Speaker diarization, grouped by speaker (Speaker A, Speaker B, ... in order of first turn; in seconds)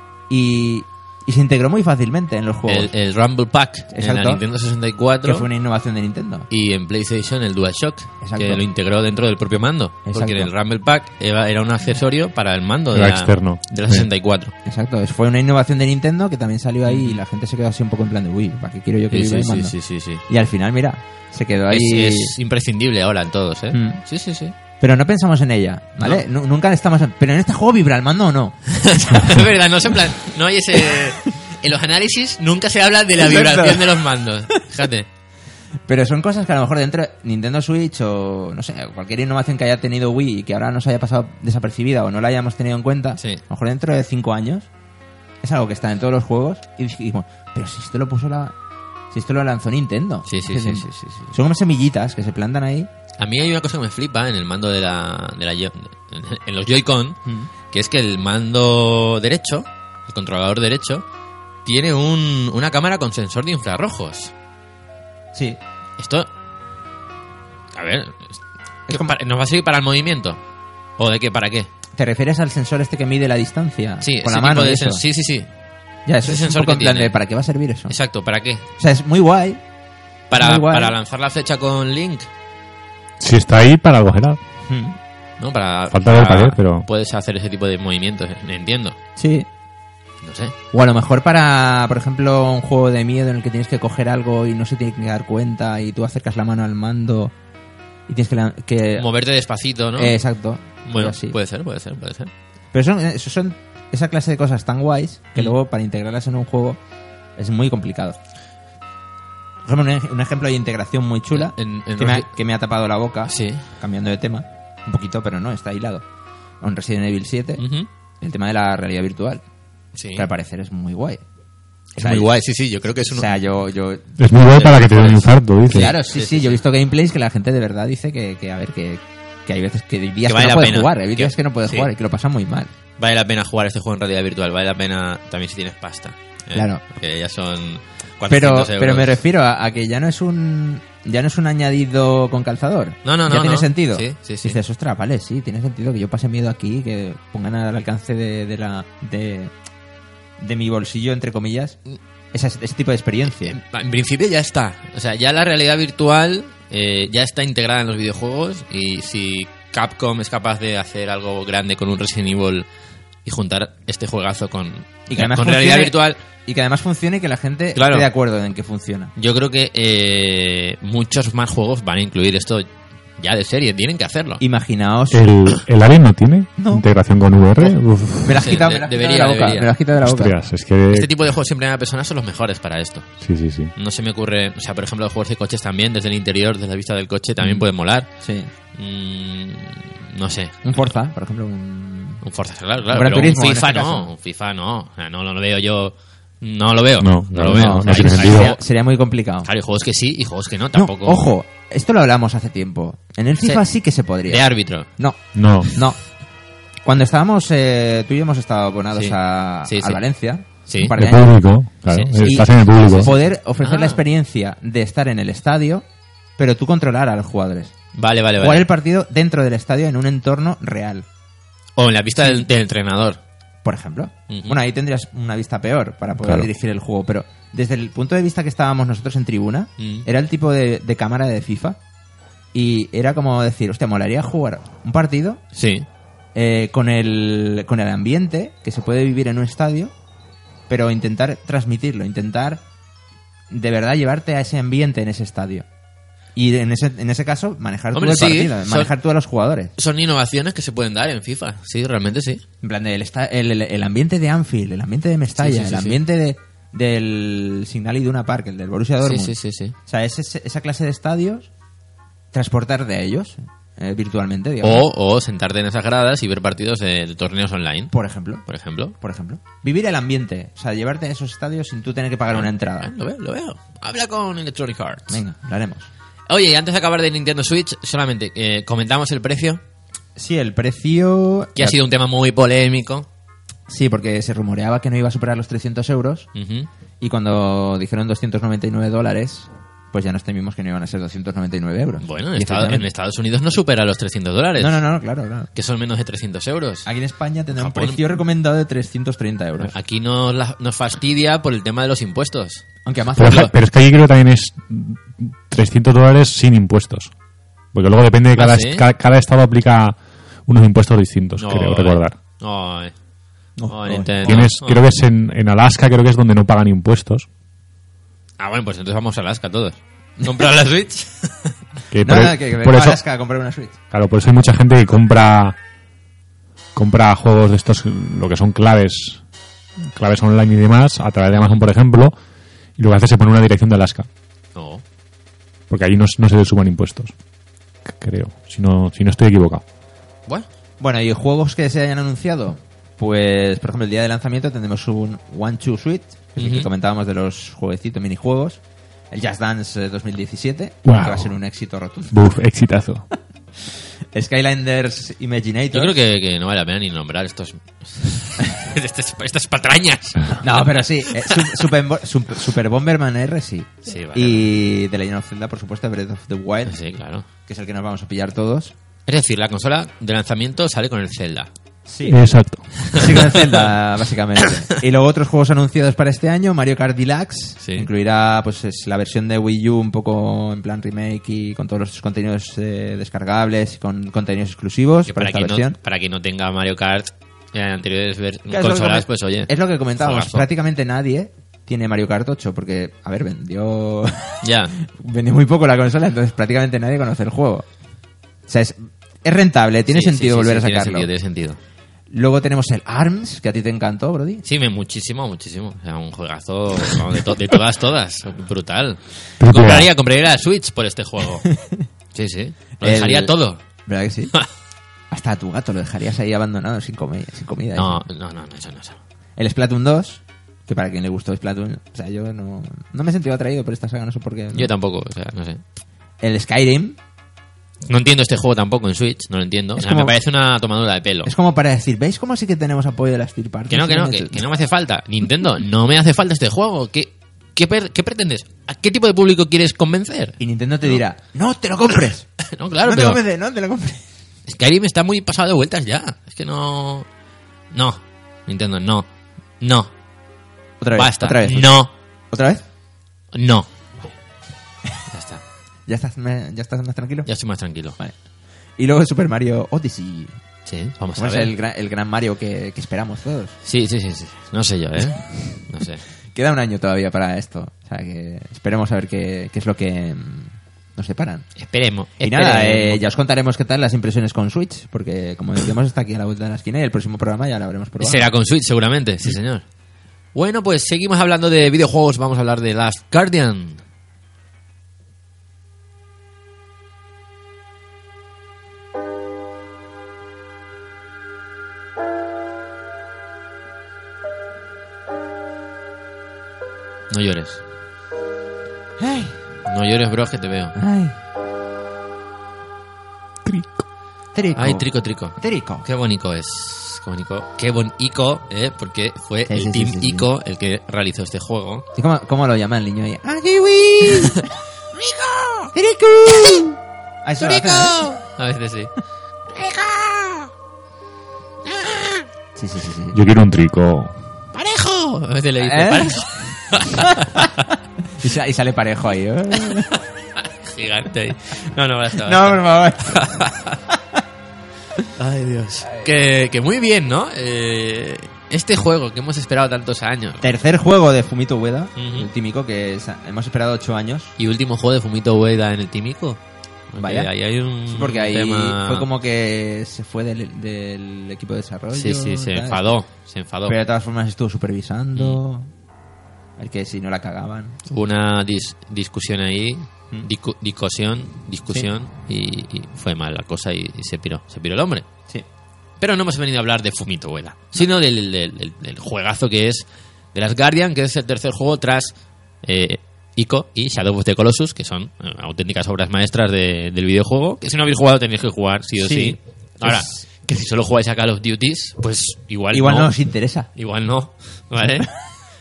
Speaker A: 0.3-2.9, 3.9-4.4, 5.2-6.5, 8.2-8.6, 10.1-10.5, 14.7-19.8, 20.3-22.4, 23.7-24.0, 24.8-28.6, 33.2-34.0, 35.9-44.7, 45.4-48.5, 49.1-52.9, 57.2-57.5, 65.3-65.6, 68.9-69.2, 72.0-75.0, 76.1-78.0, 78.8-79.6, 80.3-81.0, 84.7-85.0, 89.2-89.5, 90.7-97.3, 98.1-99.1, 100.0-101.4, 102.7-106.8, 107.4-108.2, 109.7-116.0, 116.6-117.6, 118.2-119.4, 120.2-121.2, 122.0-122.3, 123.1-124.2, 125.7-132.7, 136.5-136.8, 138.3-149.5, 150.4-151.8, 152.3-153.6, 165.1-169.1, 174.4-175.2, 176.6-176.8, 177.6-180.3, 187.4-187.7, 188.2-188.5, 190.6-192.2, 192.9-194.1, 197.4-199.5, 200.7-206.0, 206.8-211.4, 212.2-215.8, 216.4-217.7, 218.4-221.1, 222.2-222.5, 223.6-231.8, 232.5-235.4, 236.3-239.9, 240.7-242.6, 243.5-245.7, 246.3-249.7, 252.6-259.4, 259.9-261.5, 262.3-264.9, 267.9-268.4, 269.0-272.9, 275.1-275.9, 280.2-281.8, 283.7-286.3, 287.0-292.9, 294.6-295.5, 296.9-299.7, 302.9-303.5, 313.6-314.5, 322.0-323.8, 340.8-352.2, 354.1-356.0, 360.4-366.8, 367.5-368.7, 371.9-372.4, 372.9-385.8, 388.5-397.7, 398.5-401.1, 402.1-404.4, 411.5-411.9, 412.8-414.3, 415.1-418.0, 419.4-424.7, 426.2-427.0, 429.8-430.1, 431.2-434.4, 440.4-442.3, 442.8-444.1, 450.8-452.6, 455.9-457.3, 458.8-460.4, 461.2-463.6, 466.3-471.5, 472.2-478.3, 499.0-499.4, 500.8-501.2, 504.3-505.9, 509.5-510.3, 511.9-514.5, 515.7-518.0, 522.5-523.2, 525.6-526.3, 526.9-527.5, 528.2-530.0, 532.2-533.3, 533.9-534.2, 540.4-544.4, 547.0-547.3, 547.9-552.9, 553.7-555.7, 556.6-557.8, 579.0-580.2, 582.7-583.7, 584.8-585.1
Speaker B: 2.7-5.5, 6.5-14.5, 16.9-17.2, 19.1-20.2, 21.7-24.6, 28.7-35.1, 43.2-43.4, 50.3-51.3, 53.2-57.2, 57.7-61.0, 61.6-64.3, 66.0-66.3, 67.7-70.4, 71.0-71.7, 74.0-75.5, 76.2-77.2, 77.9-78.7, 80.3-82.3, 85.4-89.0, 90.2-90.5, 99.0-100.2, 100.8-102.3, 111.3-112.3, 113.3-113.7, 117.6-117.9, 120.0-120.3, 122.0-123.3, 124.4-126.6, 130.2-131.9, 133.0-139.2, 143.1-144.6, 153.3-162.7, 163.2-166.2, 167.8-168.1, 169.2-174.4, 178.3-179.7, 180.9-183.1, 183.8-188.1, 188.8-190.9, 192.2-198.6, 199.4-201.3, 204.3-204.9, 208.9-210.0, 210.7-210.9, 211.9-214.0, 217.9-218.7, 221.8-223.2, 224.3-224.6, 229.8-230.1, 235.6-235.9, 247.9-248.9, 249.8-252.4, 255.4-256.0, 259.0-259.8, 264.6-267.9, 268.5-268.9, 272.3-275.2, 276.3-279.6, 281.6-283.1, 286.4-286.7, 292.0-294.8, 295.5-296.9, 297.5-298.1, 299.6-302.6, 308.4-308.9, 311.4-312.9, 313.7-314.8, 318.4-321.6, 331.3-331.6, 334.6-334.8, 346.4-346.7, 355.7-361.6, 363.9-364.5, 366.7-367.3, 369.1-371.5, 372.8-373.7, 377.6-377.9, 385.1-390.5, 394.4-394.8, 399.9-401.6, 404.4-411.5, 412.1-413.6, 417.8-419.0, 424.5-425.6, 427.9-431.3, 433.7-441.0, 442.4-443.2, 444.5-447.1, 447.7-449.1, 449.6-449.9, 450.9-451.9, 453.3-453.7, 455.1-455.4, 457.3-458.0, 460.7-461.5, 463.6-466.0, 471.6-473.0, 478.0-479.6, 480.3-483.8, 497.1-497.6, 499.6-500.8, 504.6-511.9, 514.2-515.7, 517.4-518.9, 519.5-520.5, 521.6-522.3, 524.5-527.5, 530.4-533.8, 535.1-540.5, 542.0-542.3, 544.4-549.1, 551.9-553.8, 557.9-565.1, 566.0-583.1, 583.8-585.1
Speaker C: 12.9-14.1, 83.2-84.4, 85.9-86.9, 124.2-125.9, 175.1-178.5, 180.0-181.1, 183.2-183.7, 197.0-198.5, 205.3-205.7, 210.9-213.1, 303.2-307.1, 307.7-310.0, 310.5-312.2, 314.2-317.3, 321.9-323.0, 323.9-325.6, 326.8-329.2, 329.9-332.1, 332.8-334.1, 335.7-337.1, 337.9-339.6, 350.9-351.3, 352.1-353.1, 372.1-372.9, 409.4-409.9, 503.5-503.8, 523.1-524.1